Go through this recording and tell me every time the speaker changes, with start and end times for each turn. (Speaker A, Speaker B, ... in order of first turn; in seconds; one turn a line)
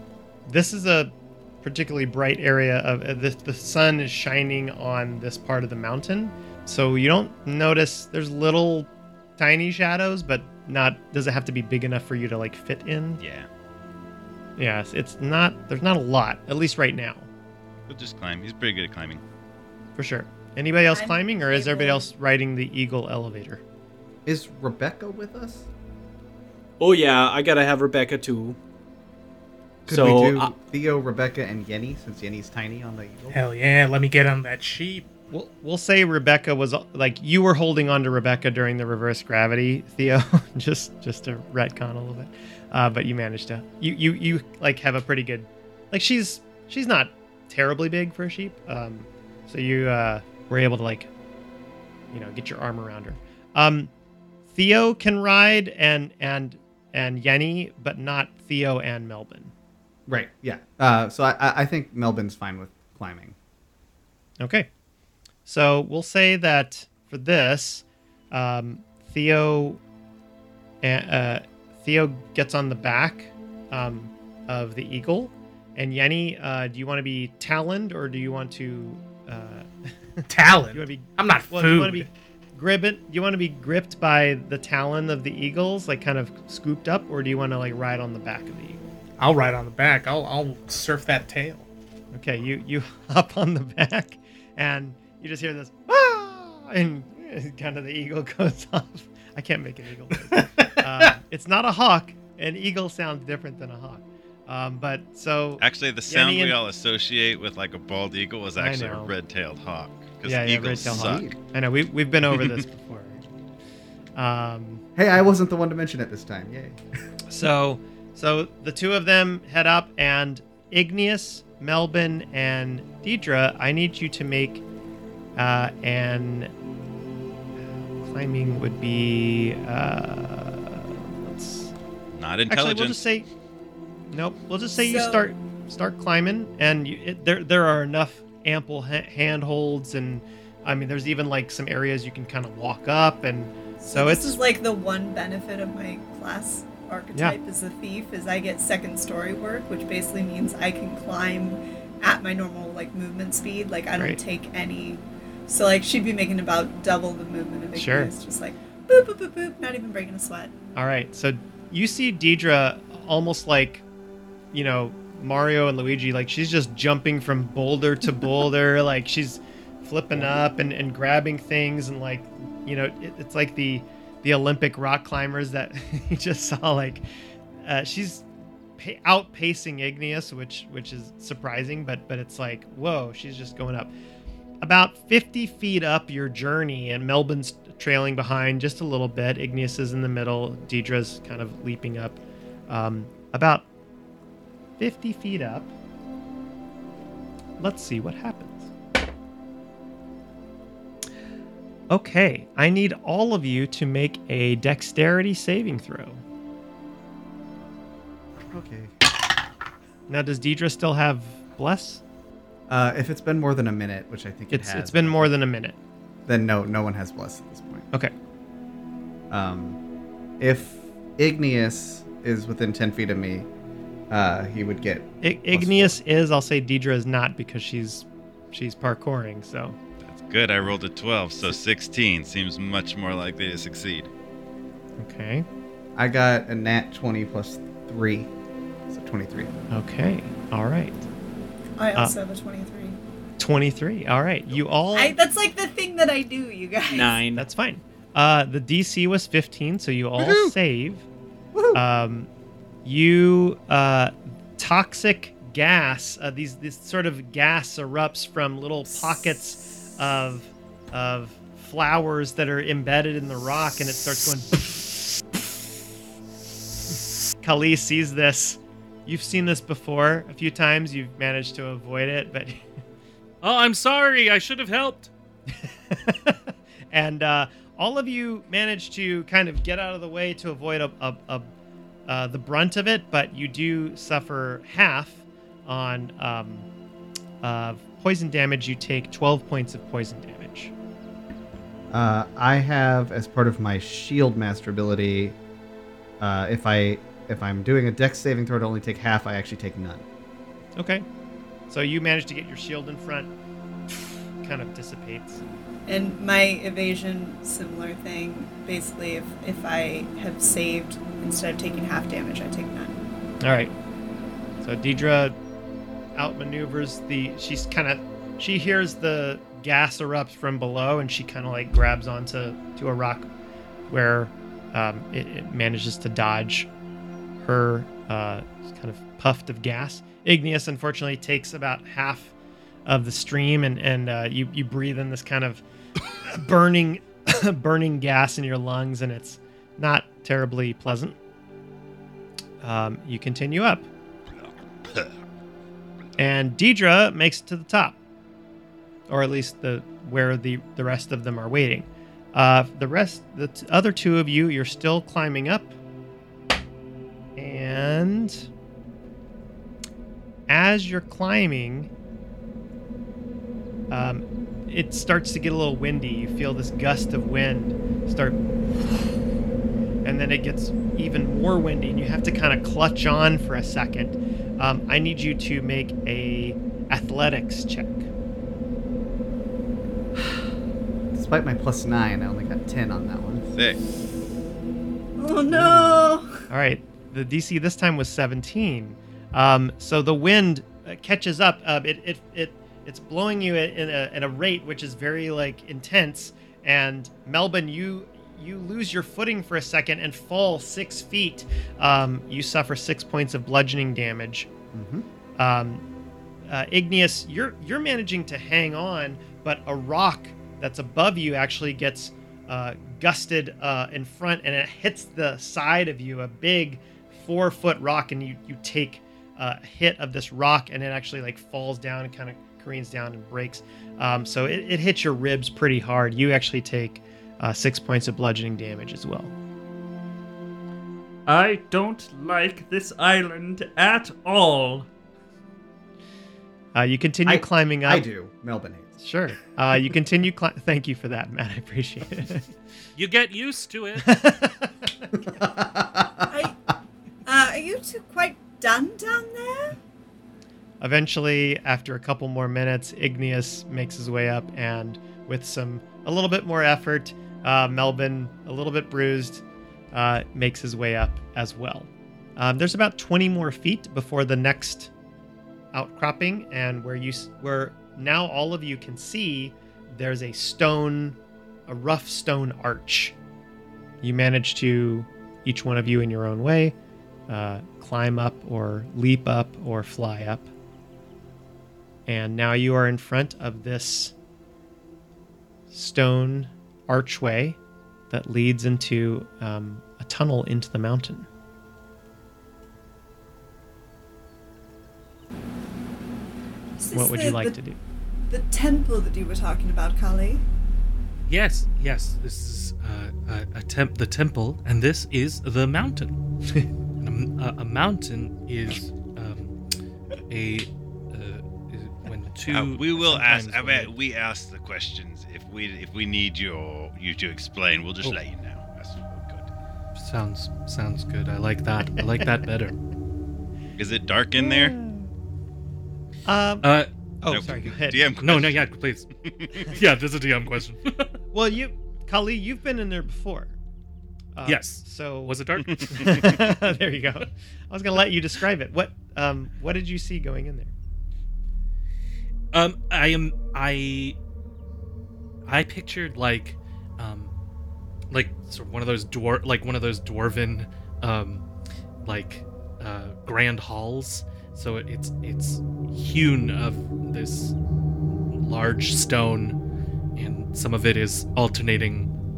Speaker A: 0.5-13.2
Speaker B: 13.2-13.5
Speaker A: 14.6-17.3
Speaker B: 17.9-19.2
Speaker A: 20.0-23.6
Speaker C: 20.9-22.1
Speaker D: 24.2-25.7
Speaker E: 26.8-28.6
Speaker D: 29.9-33.4
Speaker E: 29.9-30.5
Speaker F: 33.3-35.1
Speaker A: 35.3-51.1
Speaker A: 52.1-53.9
Speaker A: 54.5-59.5
Speaker D: 60.1-63.4
Speaker A: 64.4-64.7
Speaker A: 65.5-69.8
Speaker A: 70.8-88.8
Speaker F: 80.3-82.1
Speaker F: 89.2-91.7
Speaker A: 92.1-106.5
Speaker F: 100.3-101.1
Speaker B: 105.6-111.3
Speaker A: 108.6-109.1
Speaker A: 110.2-113.2
Speaker D: 110.8-111.3
Speaker A: 114.2-114.8
Speaker D: 115.0-116.8
Speaker A: 117.3-124.6
Speaker A: 125.3-126.5
Speaker A: 128.0-131.7
Speaker B: 132.1-133.0
Speaker A: 132.5-133.3
Speaker A: 134.1-144.4
Speaker C: 134.8-135.3
Speaker C: 143.8-160.5
Speaker A: 157.7-158.1
Speaker A: 160.8-163.8
Speaker A: 164.5-177.1
Speaker A: 177.6-178.2
Speaker A: 178.8-183.9
Speaker A: 184.6-193.7
Speaker A: 194.8-195.7
Speaker A: 197.6-198.7
Speaker A: 201.9-206.2
Speaker D: 208.5-209.0
Speaker A: 210.1-212.0
Speaker D: 212.7-215.3
Speaker A: 214.5-215.8
Speaker D: 216.3-217.8
Speaker D: 219.3-219.8
Speaker D: 220.4-223.5
Speaker D: 224.1-226.0
Speaker A: 225.2-229.8
Speaker B: 230.0-234.1
Speaker A: 235.0-235.4
Speaker D: 235.9-238.3
Speaker D: 238.9-239.5
Speaker A: 239.7-241.0
Speaker C: 241.8-243.0
Speaker A: 243.4-245.2
Speaker C: 244.9-247.2
Speaker E: 246.9-247.4
Speaker A: 247.3-251.1
Speaker A: 251.7-252.3
Speaker A: 252.8-264.6
Speaker A: 267.4-272.6
Speaker G: 273.4-275.1
Speaker A: 275.6-281.5
Speaker A: 282.1-286.7
Speaker A: 287.4-290.7
Speaker D: 291.9-295.4
Speaker D: 296.2-300.0
Speaker A: 300.8-301.1
Speaker A: 301.7-303.3
Speaker A: 303.9-305.4
Speaker C: 305.9-313.0
Speaker A: 313.4-313.7
Speaker A: 314.6-315.4
Speaker A: 316.1-323.3
Speaker A: 323.9-326.7
Speaker A: 327.4-332.3
Speaker A: 332.9-335.6
Speaker A: 336.2-341.1
Speaker A: 342.6-343.9
Speaker B: 344.4-345.1
Speaker A: 346.2-348.0
Speaker A: 349.1-355.7
Speaker A: 357.4-358.5
Speaker A: 360.5-361.9
Speaker A: 363.9-368.9
Speaker A: 370.0-378.1
Speaker D: 381.1-383.4
Speaker B: 383.5-383.8
Speaker C: 385.2-386.4
Speaker A: 386.5-404.5
Speaker D: 404.7-405.1
Speaker A: 405.4-405.8
Speaker A: 406.5-429.3
Speaker H: 431.2-434.9
Speaker A: 436.7-438.0
Speaker D: 437.2-438.9
Speaker A: 439.0-442.5
Speaker G: 442.9-444.1
Speaker A: 444.0-444.7
Speaker D: 445.2-446.3
Speaker C: 446.3-446.6
Speaker C: 447.2-449.8
Speaker A: 450.8-464.9
Speaker A: 465.7-473.1
Speaker A: 474.0-476.7
Speaker A: 477.3-480.5
Speaker A: 482.1-484.1
Speaker A: 485.7-487.6
Speaker A: 488.1-491.3
Speaker C: 496.8-497.6
Speaker A: 496.9-497.8
Speaker C: 498.3-500.4
Speaker G: 501.3-506.2
Speaker G: 507.0-509.5
Speaker G: 510.3-513.9
Speaker B: 512.5-519.5
Speaker G: 519.9-522.8
Speaker B: 523.8-524.7
Speaker A: 524.4-525.1
Speaker A: 526.2-526.7
Speaker G: 526.6-526.9
Speaker A: 527.2-528.1
Speaker B: 527.3-529.8
Speaker G: 528.2-529.1
Speaker G: 529.6-531.2
Speaker A: 531.3-533.5
Speaker A: 534.3-540.7
Speaker G: 534.4-536.4
Speaker B: 535.6-536.5
Speaker G: 542.5-544.2
Speaker G: 545.5-547.3
Speaker G: 548.1-551.4
Speaker G: 552.0-557.5
Speaker G: 558.3-559.6
Speaker G: 560.1-562.1